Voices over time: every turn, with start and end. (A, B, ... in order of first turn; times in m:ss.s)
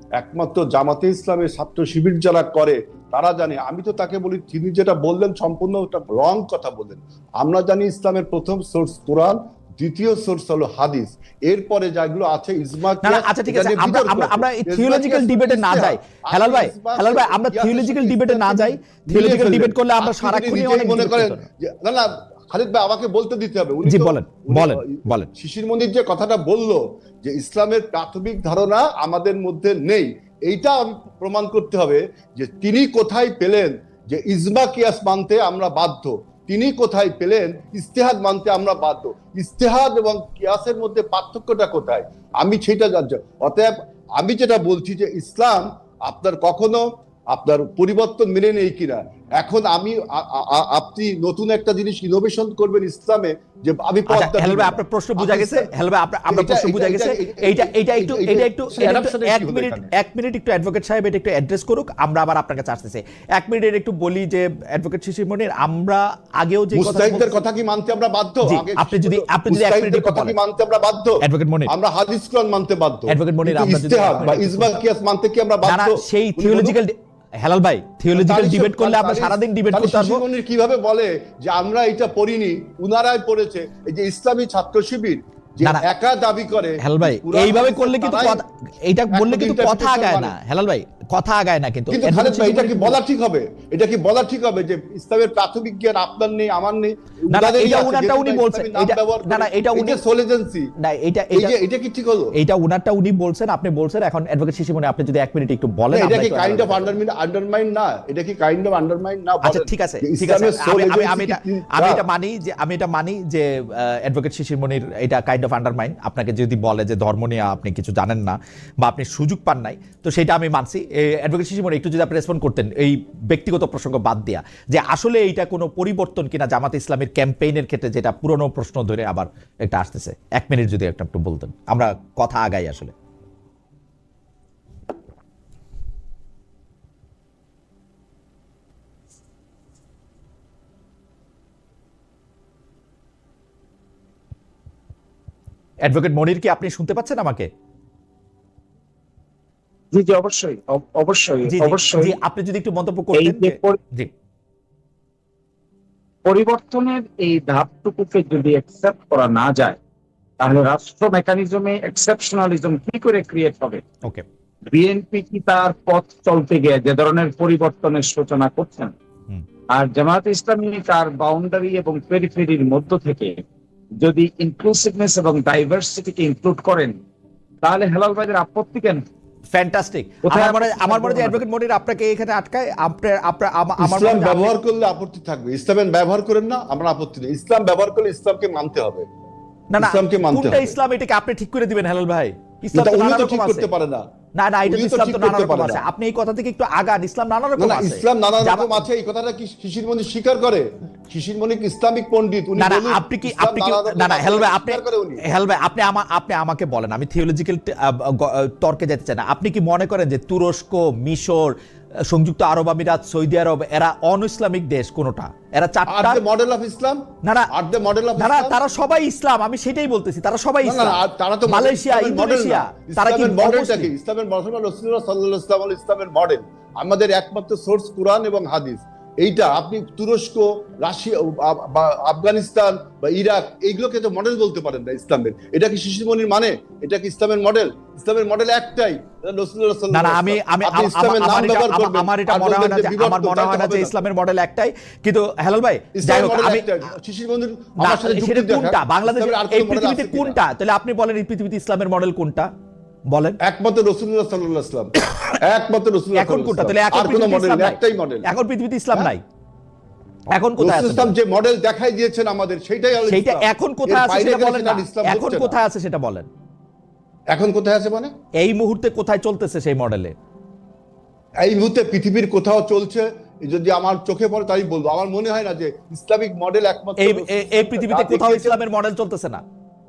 0:00.2-0:55.7 A
0:13.0-0:21.5 B
0:23.9-0:25.3 B
0:54.1-1:07.4 B
0:56.3-0:59.9 A
1:06.7-1:16.8 A
1:08.4-1:10.4 B
1:11.2-1:11.7 B
1:13.1-1:14.8 B
1:15.6-1:20.2 B
1:18.1-1:28.4 A
1:26.8-1:33.0 B
1:29.1-1:30.4 A
1:31.9-1:40.7 A
1:37.3-1:40.0 B
1:40.8-1:41.5 B
1:41.3-1:42.4 A
1:42.4-1:46.9 B
1:45.9-1:52.0 A
1:49.4-2:12.9 B
2:25.8-2:27.5 B
2:29.9-2:32.2 C
2:31.5-2:34.1 B
2:33.2-2:33.8 C
2:36.2-2:39.8 C
2:40.4-2:43.8 C
2:44.7-2:48.9 C
2:49.7-2:53.4 C
2:54.0-2:57.0 C
2:57.6-2:59.0 C
2:59.5-3:04.5 B
3:00.2-3:01.4 C
3:03.8-3:09.1 A
3:09.7-3:13.7 B
3:09.8-3:10.8 A
3:12.7-3:14.0 A
3:14.4-3:18.8 B
3:14.7-3:15.8 A
3:17.6-3:25.2 A
3:22.6-3:31.5 B
3:32.1-3:36.2 B
3:35.9-3:38.6 A
3:38.2-3:43.9 B
3:40.6-4:04.0 A
3:59.9-4:06.7 B
4:06.0-4:10.4 A
4:07.8-4:12.5 B
4:13.1-4:13.4 B
4:13.4-4:18.3 A
4:16.2-4:19.2 B
4:20.3-4:21.1 B
4:20.6-4:25.6 A
4:23.1-4:26.3 B
4:27.3-4:28.1 A
4:28.4-4:30.1 B
4:31.4-4:38.6 A
4:37.0-4:39.4 B